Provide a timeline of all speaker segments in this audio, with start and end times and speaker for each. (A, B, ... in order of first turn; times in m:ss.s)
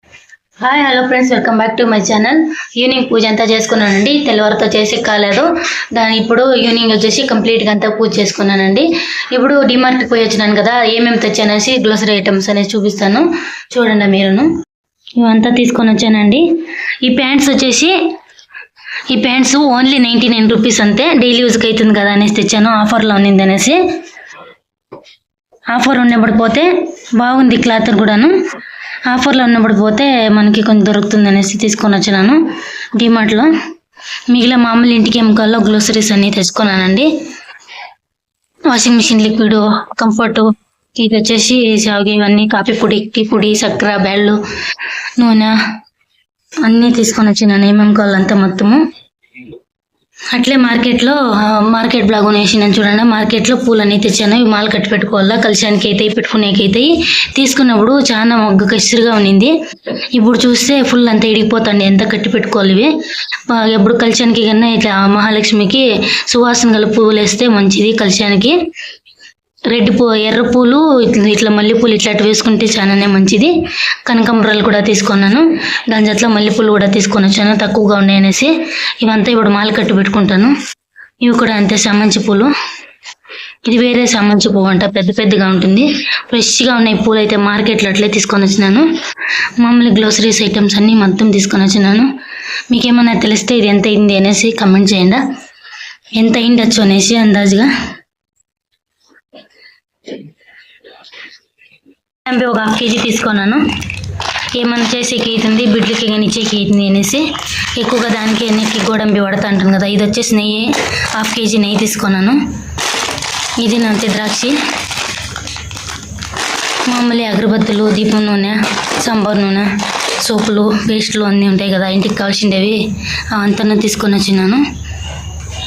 0:00.6-0:14.5 A
0:15.2-0:18.0 A
0:19.1-0:23.8 A
0:25.7-0:28.3 A
0:29.1-0:32.4 A
0:33.0-0:33.5 A
0:34.3-0:37.1 A
0:38.7-0:44.4 A
0:45.2-0:45.6 A
0:46.6-0:48.8 A
0:50.3-0:59.5 A
1:00.1-1:02.9 A
1:03.5-1:08.6 A
1:09.7-1:13.5 A
1:14.1-1:20.5 A
1:21.2-1:22.5 A
1:23.6-1:28.9 A
1:29.6-1:32.1 A
1:32.7-1:35.2 A
1:36.2-1:37.7 A
1:42.2-1:43.6 A
1:44.5-1:52.4 A
1:53.6-1:54.6 A
1:56.8-2:04.6 A